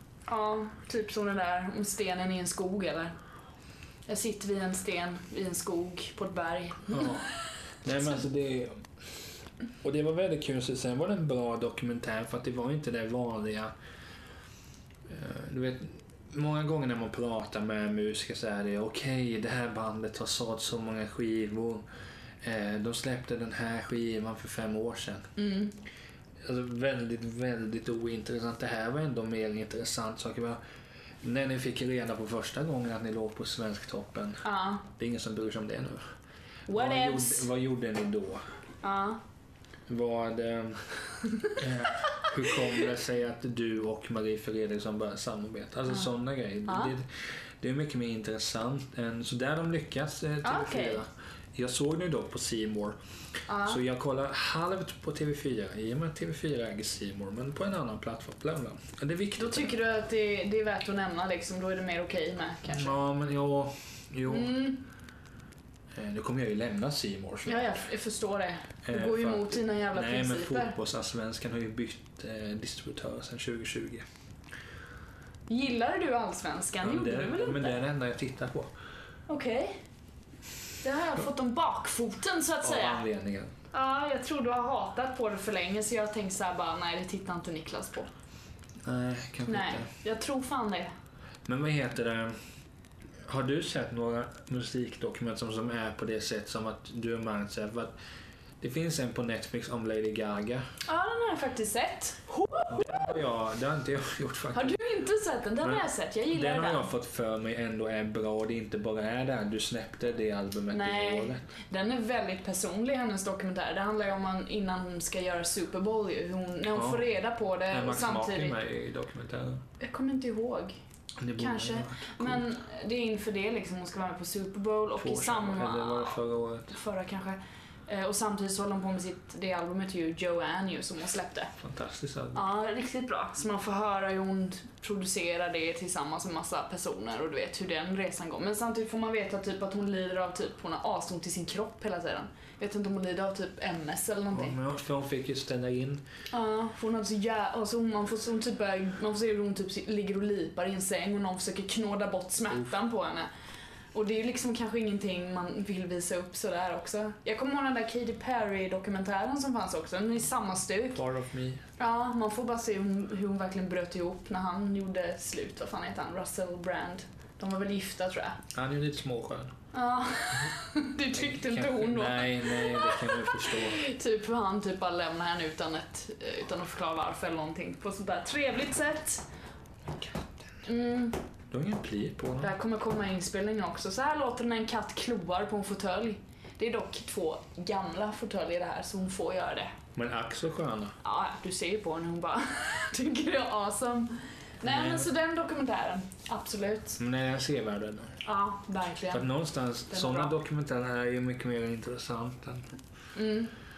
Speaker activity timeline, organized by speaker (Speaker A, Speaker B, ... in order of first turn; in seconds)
Speaker A: 0.3-3.1, 4.1-7.2, 25.4-25.7, 34.4-34.9, 36.7-37.5, 38.8-39.2, 46.6-46.9, 50.4-51.0, 53.5-53.8, 59.4-63.0, 64.3-64.8, 67.5-70.7, 75.5-77.8, 79.3-79.8, 80.8-83.0, 83.7-88.1, 89.5-90.9, 100.9-102.8, 104.5-106.9, 110.7-118.5, 119.8-120.7, 121.4-131.5, 132.3-144.6, 146.3-153.3, 153.9-161.0, 161.8-168.4, 169.7-179.2, 180.6-181.2, 182.4-189.7, 191.0-197.0, 198.2-199.2, 199.9-200.3, 203.1-203.5
Speaker B: 6.9-7.3, 7.8-8.8, 9.8-13.7, 15.1-21.9, 22.4-25.3, 26.4-30.6, 31.2-36.0, 36.7-38.4, 39.9-40.8, 41.5-47.1, 47.6-53.0, 53.6-59.8, 62.7-64.6, 65.9-67.8, 68.8-74.0, 76.8-78.7, 82.6-83.5, 88.8-89.9, 91.5-92.3, 93.2-97.9, 98.6-100.6, 102.7-104.7, 105.6-111.4, 116.7-117.1, 117.7-119.6, 121.2-122.5, 125.0-126.7, 131.6-132.4, 144.3-146.0, 160.9-161.6, 168.5-169.5, 171.1-173.8, 180.0-180.2, 181.5-182.5, 189.9-190.9, 194.6-195.1, 197.0-198.1, 199.1-202.7